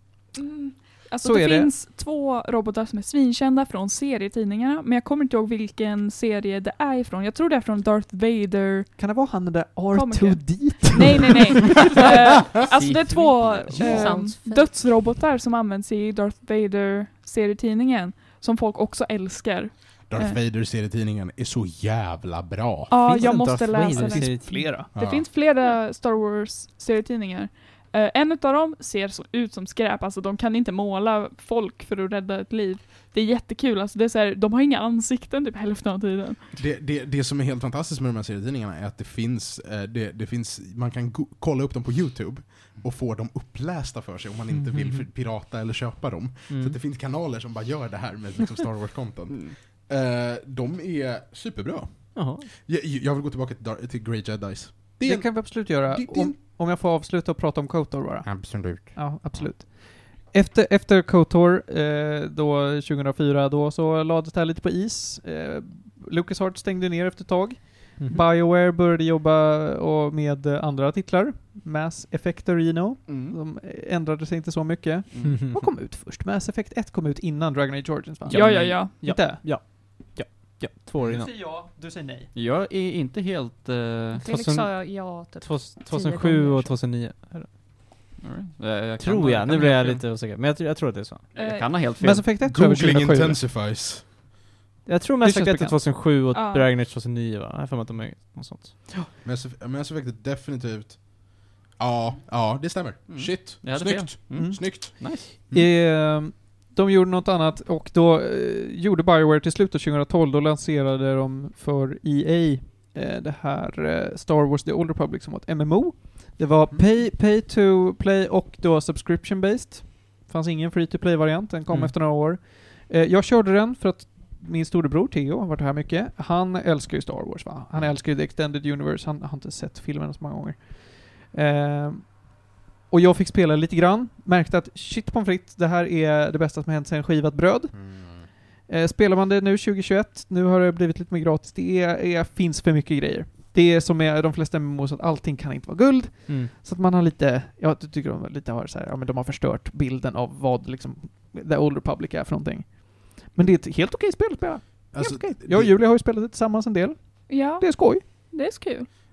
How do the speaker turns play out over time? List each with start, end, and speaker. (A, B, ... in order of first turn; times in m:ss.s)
0:00.3-0:08.9 A
0:01.2-0:01.7 B
0:09.0-0:11.8 B
0:09.9-0:20.4 A
0:12.7-0:13.3 C
0:13.2-0:14.7 D
0:13.8-0:14.1 B
0:20.1-0:22.9 E
0:22.9-0:36.4 A
0:23.0-0:24.9 F
0:23.9-0:24.9 B
0:24.9-0:25.3 E
0:36.5-0:56.4 E
0:44.6-0:45.0 F
0:46.5-0:46.8 F
0:52.1-0:52.5 F
0:55.0-1:19.4 B
0:58.3-0:58.9 E
1:13.1-1:13.4 C
1:15.2-1:15.7 F
1:18.3-1:21.3 F
1:18.3-1:19.0 A
1:18.4-1:18.9 C
1:21.0-1:22.3 B
1:22.3-1:24.2 C
1:24.2-1:26.8 D
1:24.2-1:24.8 F
1:25.4-1:27.6 F
1:28.2-1:30.1 C
1:29.0-1:31.3 F
1:31.3-1:32.2 C
1:32.0-1:33.4 B
1:32.4-1:34.1 E
1:34.8-1:38.8 F
1:35.2-1:35.8 B
1:36.3-1:36.7 A
1:39.2-1:45.7 E
1:43.1-1:45.2 C
1:44.3-2:12.4 B
2:12.9-2:18.2 B
2:17.7-2:18.2 E
2:18.7-2:38.0 B
2:34.9-2:35.7 E
2:37.3-2:38.9 A